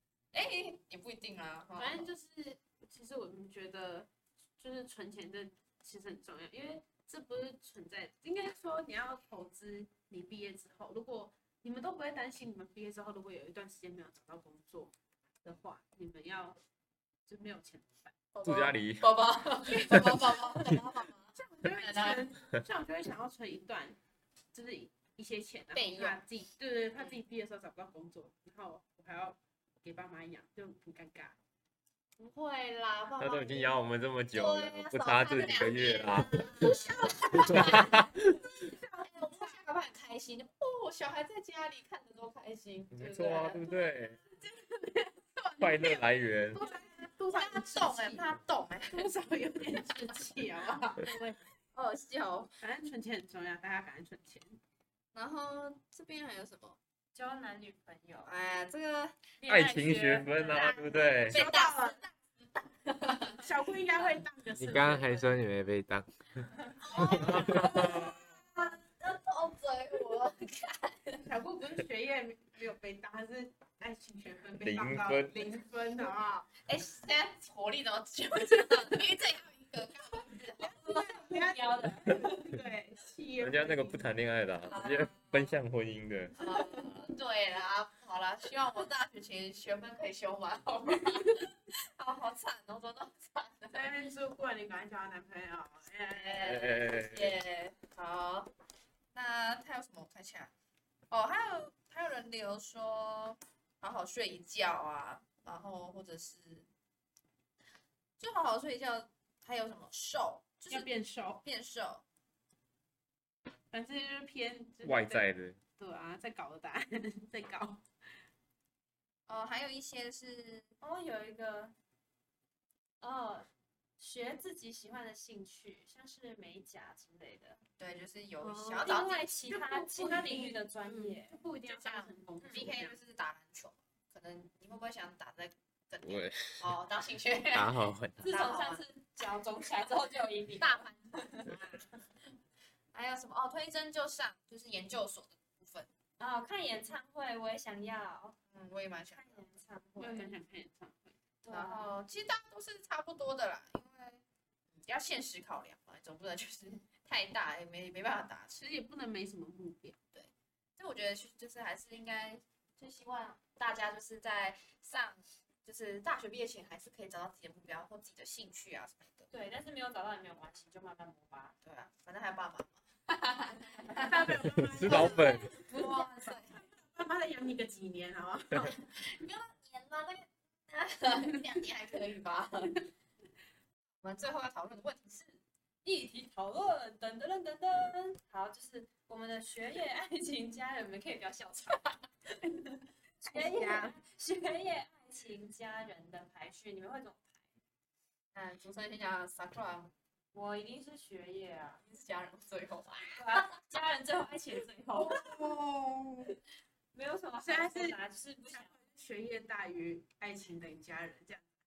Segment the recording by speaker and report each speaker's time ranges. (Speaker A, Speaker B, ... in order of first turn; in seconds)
Speaker A: 0.3-2.1, 18.3-22.3, 25.7-26.2, 32.2-33.7, 34.3-38.0, 39.0-43.7, 47.3-49.1, 51.7-52.5, 55.1-56.8, 58.3-59.2, 60.5-63.5, 66.8-71.3, 76.5-81.2, 84.7-85.5, 86.4-93.9, 96.1-98.5, 99.1-100.5, 101.1-106.7, 108.2-112.0, 119.3-120.7, 127.8-129.4, 131.7-138.8, 140.6-141.9, 142.9-145.9, 148.5-149.5, 151.5-154.2, 154.8-158.6, 160.1-169.3, 171.6-176.6, 178.9-182.8, 184.0-185.4, 198.3-199.9, 201.8-203.6
Speaker B: 1.8-16.6, 17.3-18.2, 19.9-20.8, 21.3-24.0, 24.5-31.4, 36.4-39.6, 44.3-48.3, 48.9-51.4, 52.6-54.6, 61.3-62.0, 63.4-65.3, 71.2-76.5, 80.6-84.0, 93.7-96.8, 110.7-111.4, 113.7-117.8, 128.4-129.0, 129.5-133.0, 150.0-151.2, 158.6-160.0, 173.9-178.9, 193.3-193.9, 205.0-206.4, 207.4-211.5
Speaker C: 18.4-19.1, 19.9-20.2, 33.2-36.8, 37.3-38.4, 42.9-44.2, 45.6-46.6, 59.5-61.4, 67.1-68.2, 74.6-75.5, 83.4-86.4, 96.4-97.4, 114.8-115.6, 174.5-175.5
Speaker D: 57.1-58.3, 59.4-60.8, 80.8-82.4, 120.8-121.7, 123.0-123.5, 124.0-127.6, 128.8-131.4, 138.2-141.5, 146.2-148.4, 149.1-150.4, 151.4-151.9, 169.3-171.6, 174.9-176.4, 185.8-197.4, 200.3-201.8, 203.2-205.5, 206.9-208.7
Speaker E: 64.5-66.5, 136.0-136.7, 137.5-138.3